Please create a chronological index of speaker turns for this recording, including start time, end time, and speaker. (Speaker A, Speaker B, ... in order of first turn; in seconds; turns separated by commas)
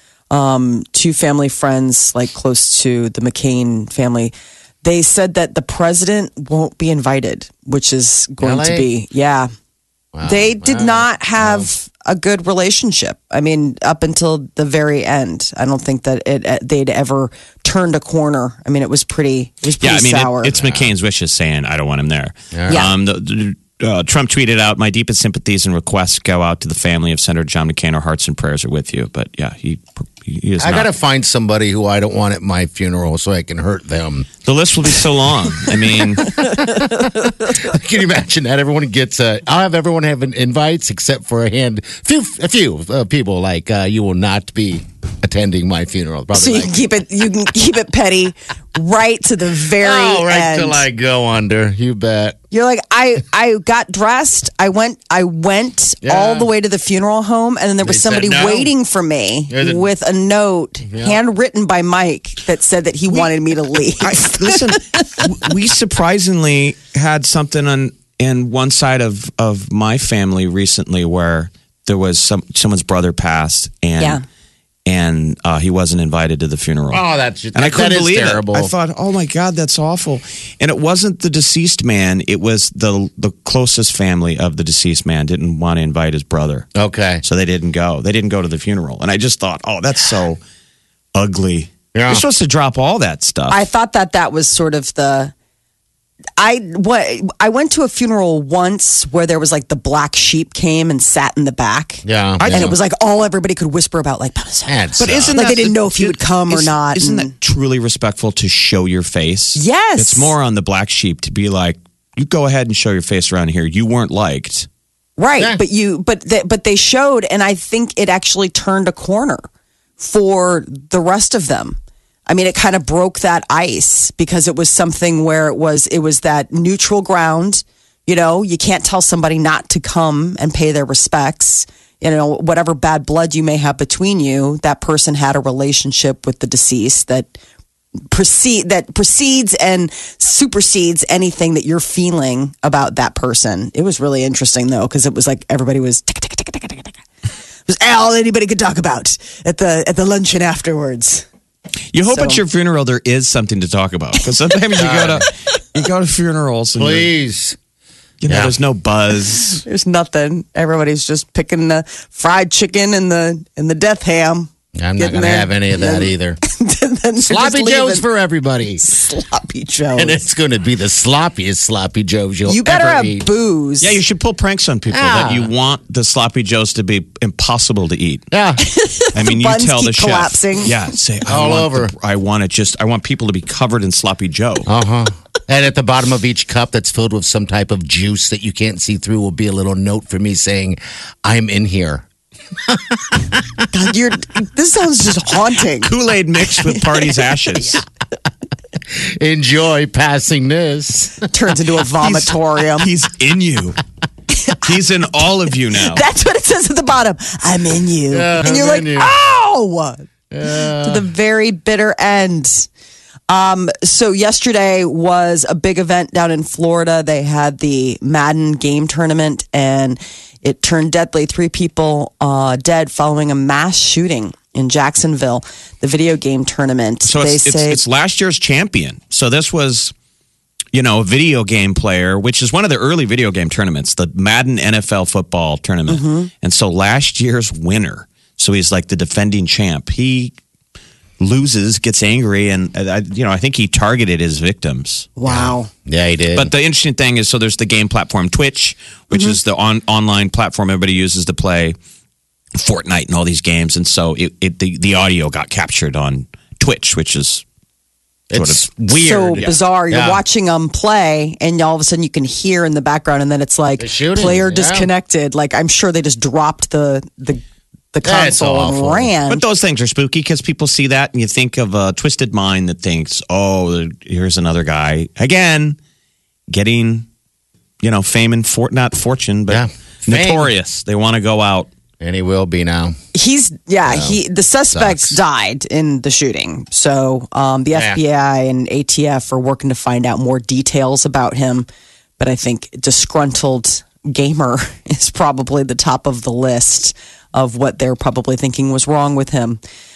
Speaker A: 0.3-9.5, Speaker B: 8.4-8.9, Speaker B: 10.1-11.7, Speaker A: 10.2-20.5, Speaker C: 19.8-30.9, Speaker B: 20.5-20.9, Speaker B: 22.5-22.9, Speaker B: 30.6-34.3, Speaker C: 34.4-36.5, Speaker B: 35.7-46.7, Speaker A: 36.7-37.5, Speaker A: 46.3-50.8, Speaker B: 49.8-52.4, Speaker A: 52.5-65.0, Speaker B: 56.0-56.5, Speaker B: 57.8-58.7, Speaker B: 59.5-59.9, Speaker B: 60.9-61.2, Speaker C: 64.0-74.2, Speaker C: 74.8-77.0, Speaker B: 76.9-78.7, Speaker C: 77.5-86.7, Speaker B: 86.8-87.2, Speaker C: 87.2-90.4, Speaker C: 91.1-93.6, Speaker B: 91.9-92.2, Speaker A: 93.5-95.3, Speaker A: 96.4-107.3, Speaker B: 102.0-102.8, Speaker C: 102.4-102.8, Speaker B: 104.7-105.3, Speaker C: 105.0-114.7, Speaker A: 109.5-110.3, Speaker A: 115.2-119.4, Speaker A: 120.0-137.3, Speaker A: 138.1-147.0, Speaker A: 147.7-151.2, Speaker C: 151.9-157.1, Speaker A: 152.1-152.4, Speaker B: 154.8-155.2, Speaker B: 156.8-157.6, Speaker C: 158.2-159.6, Speaker B: 158.3-158.5, Speaker A: 159.6-168.0, Speaker B: 164.8-166.4, Speaker B: 167.2-168.8, Speaker A: 168.8-170.2, Speaker B: 169.9-173.2, Speaker A: 172.4-174.0, Speaker C: 173.8-178.2, Speaker B: 174.9-175.5, Speaker B: 178.3-178.6, Speaker A: 178.6-180.8, Speaker C: 179.1-184.7, Speaker B: 181.3-181.9, Speaker B: 184.7-192.0, Speaker B: 192.7-193.7, Speaker A: 193.7-195.9, Speaker C: 195.8-197.8, Speaker A: 196.6-197.0, Speaker B: 198.9-201.3, Speaker A: 201.3-202.9, Speaker C: 202.0-203.8, Speaker C: 204.6-206.0, Speaker A: 205.7-212.7, Speaker B: 208.1-209.1, Speaker B: 210.3-211.1, Speaker A: 213.3-227.8, Speaker C: 227.0-229.9, Speaker C: 230.7-240.4, Speaker A: 235.9-236.3, Speaker C: 241.2-245.1, Speaker A: 245.2-245.7, Speaker B: 245.2-246.5, Speaker C: 246.3-251.8, Speaker C: 252.6-257.4, Speaker B: 258.3-260.2, Speaker C: 258.3-258.8, Speaker A: 258.9-267.4, Speaker B: 263.8-264.9, Speaker A: 267.9-269.4, Speaker B: 268.0-269.1, Speaker C: 269.3-275.8, Speaker C: 276.5-277.1, Speaker C: 277.8-281.7, Speaker B: 279.5-280.5, Speaker B: 282.0-283.0, Speaker A: 283.1-291.7, Speaker B: 283.9-284.2, Speaker B: 284.7-285.2, Speaker B: 287.7-288.0, Speaker A: 292.2-299.6